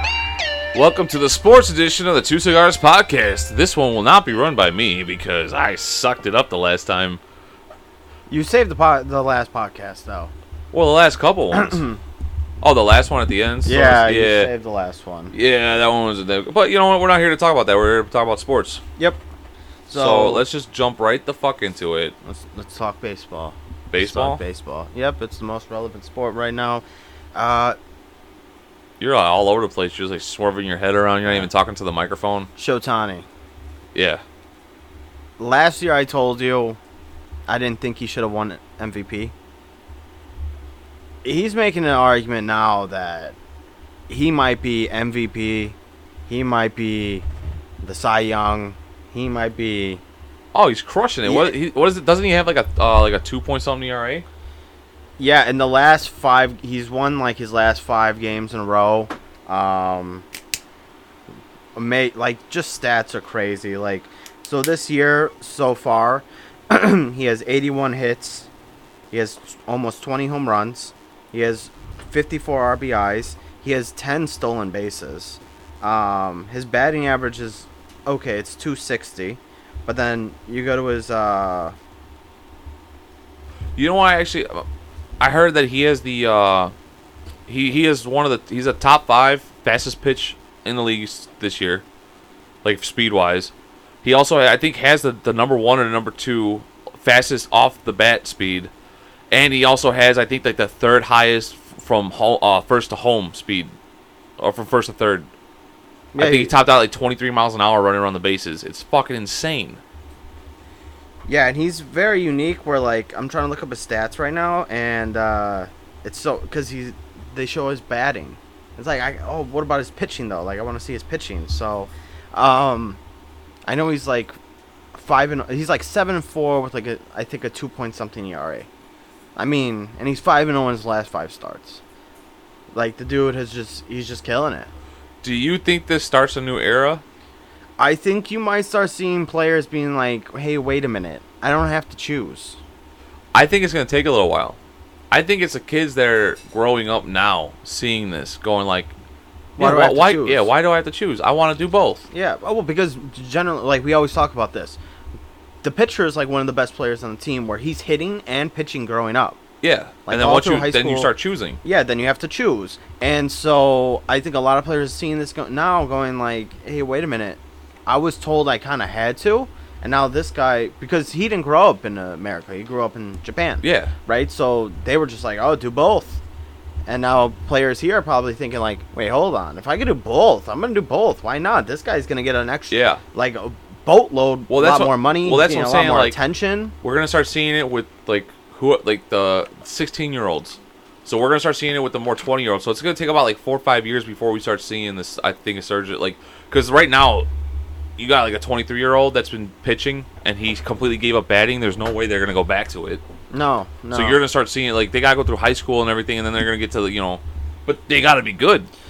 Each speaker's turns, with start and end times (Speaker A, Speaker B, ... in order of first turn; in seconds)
Speaker A: 0.7-7.2, 10.7-11.8, 12.6-14.5, 15.3-18.8, 19.9-22.1, 23.9-24.4, 29.0-32.5, 33.9-34.2, 50.5-54.2, 83.8-84.6, 85.2-86.7, 87.5-91.8, 92.6-93.5, 94.0-98.7, 99.3-103.7, 104.4-105.3, 106.2-109.8, 135.2-137.0, 143.3-144.6, 145.1-148.9, 149.6-152.0, 159.6-161.6, 173.6-173.9, 182.7-183.0, 184.5-186.2, 186.8-197.3, 198.0-203.0, 203.9-208.7
Speaker B: 8.3-10.3, 11.5-12.0, 13.6-15.3, 19.9-20.4, 22.2-27.8, 32.6-33.2, 35.4-36.8, 37.5-39.3, 41.2-43.4, 44.1-45.8, 46.3-47.2, 47.8-50.0, 51.2-51.5, 55.2-60.2, 61.7-68.5, 69.1-81.7, 106.1-106.5, 111.3-123.0, 123.7-124.3, 124.9-128.7, 129.3-131.8, 132.7-134.7, 137.8-142.6, 149.6-150.5, 152.1-154.8, 155.6-159.4, 160.1-161.1, 161.6-176.2, 176.9-186.7, 203.3-204.2